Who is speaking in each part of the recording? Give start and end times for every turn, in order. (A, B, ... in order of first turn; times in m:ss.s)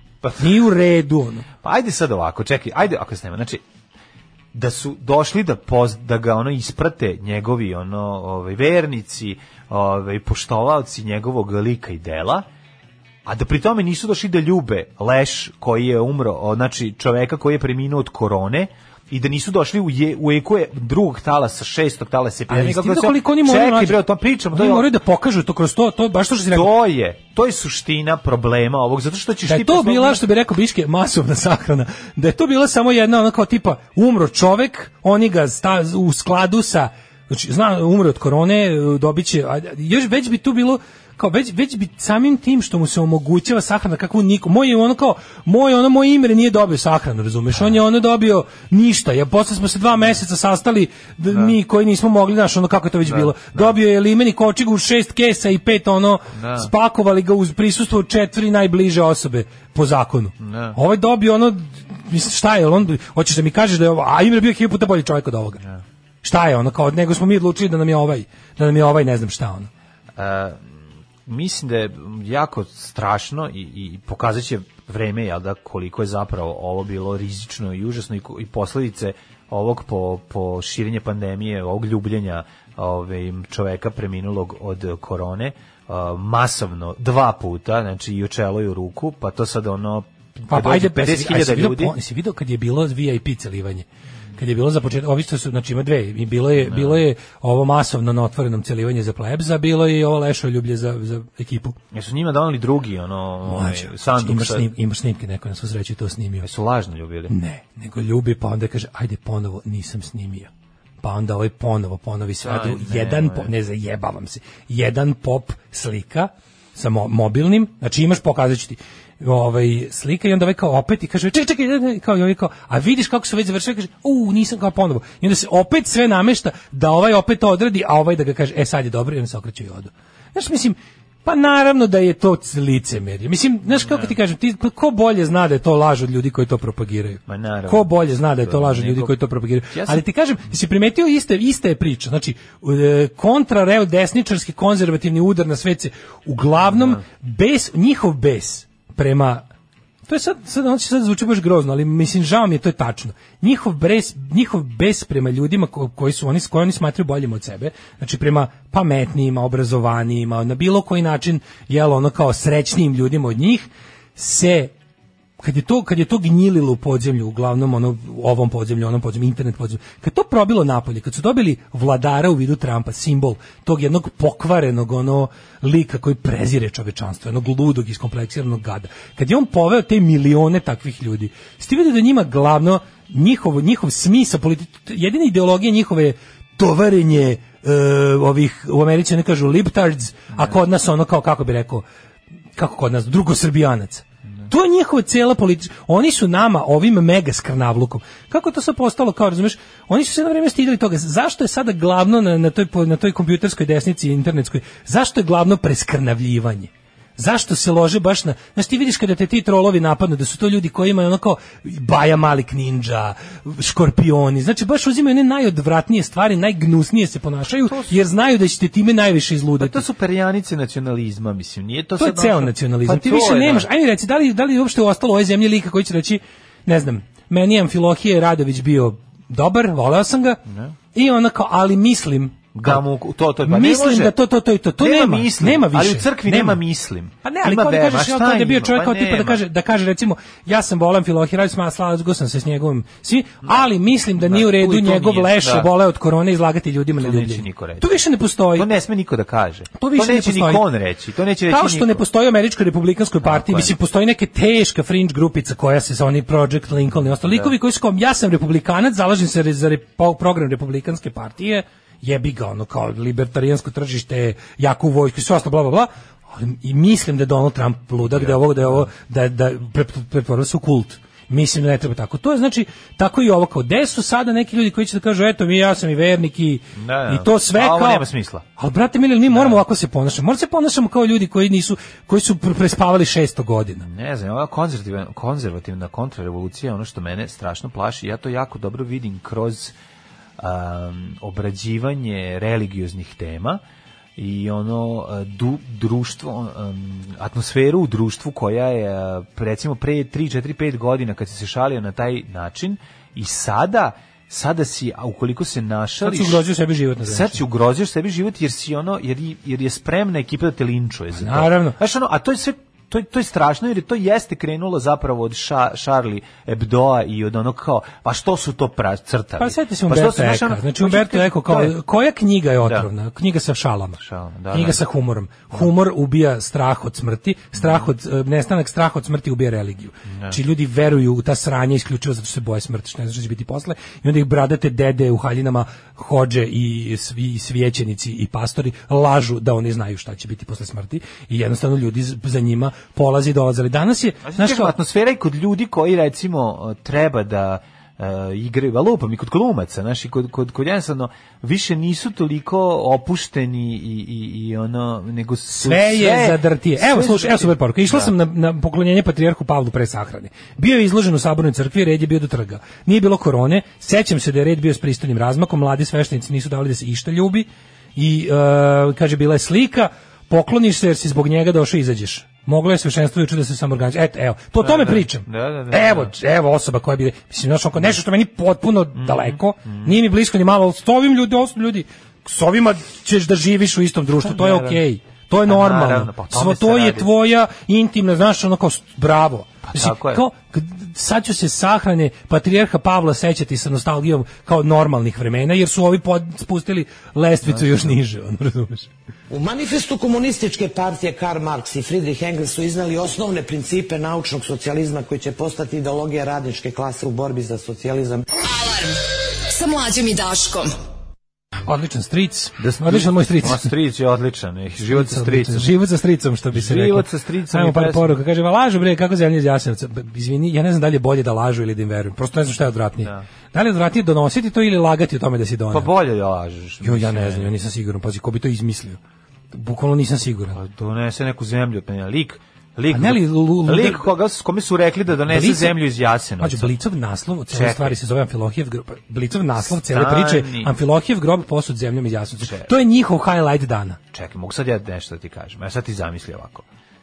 0:00.2-0:00.5 A
0:00.4-0:01.4 B
0:01.6-0:03.6 A
0:04.5-0:12.4 A
0:13.2-0:24.9 A
0:22.5-0:24.0 B
0:24.5-0:26.7 B
0:26.5-0:30.2 A
0:29.5-1:05.6 B
0:51.3-0:51.5 A
0:53.0-0:53.7 A
0:56.3-0:56.7 A
1:00.4-1:00.8 A
1:06.2-1:09.7 B
1:10.2-1:31.9 A
1:30.5-1:33.8 B
1:34.4-1:41.8 B
1:36.6-1:37.0 A
1:41.9-1:44.7 A
1:43.4-1:46.5 B
1:46.4-1:47.3 A
1:47.3-1:50.5 B
1:51.0-2:29.4 B
1:52.4-1:53.5 A
2:13.8-2:14.2 A
2:17.3-2:19.1 A
2:19.7-2:20.0 A
2:26.6-2:27.0 A
2:30.1-2:44.7 B
2:45.4-3:11.8 B
3:12.6-3:39.8 B
3:37.6-3:38.0 A
3:39.6-3:43.7 A
3:42.0-3:50.4 B
3:50.5-3:50.7 A
3:50.9-3:52.8 B
3:52.5-3:54.1 A
3:53.4-3:56.6 B
3:54.8-3:59.4 A
3:57.2-4:08.7 B
4:04.2-4:05.7 A
4:07.0-4:08.0 A
4:08.5-4:12.0 A
4:09.8-4:10.6 B
4:11.5-4:38.0 B
4:13.2-4:13.7 A
4:17.2-4:17.5 A
4:28.0-4:28.9 A
4:36.8-4:38.4 A
4:38.6-4:43.8 B
4:39.3-4:39.6 A
4:43.8-4:49.7 A
4:50.4-4:53.6 A
4:54.2-5:06.4 A
5:06.0-5:07.4 B
5:07.0-5:21.8 A
5:11.2-5:11.8 B
5:19.4-5:24.0 B
5:22.6-5:22.9 A
5:24.0-5:24.8 A
5:24.5-5:44.7 B
5:27.6-5:27.9 A
5:30.1-5:30.4 A
5:44.2-5:58.1 A
5:55.5-6:38.9 B
6:14.6-6:16.1 A
6:19.0-6:19.9 A
6:24.2-6:24.8 A
6:25.4-6:27.1 A
6:29.6-6:30.2 A
6:37.4-6:38.0 A
6:39.3-6:48.2 C
6:48.4-6:50.7 D
6:51.6-6:53.7 B
6:52.6-6:55.7 A
6:54.9-7:05.9 B
6:56.5-6:58.1 A
7:05.7-7:07.5 A
7:06.8-7:09.0 B
7:09.5-7:10.6 B
7:10.5-7:16.7 A
7:12.9-7:14.0 B
7:15.3-7:15.8 B
7:16.4-7:24.0 B
7:17.5-7:18.0 A
7:19.6-7:20.7 A
7:22.4-7:22.7 A
7:24.1-7:26.6 A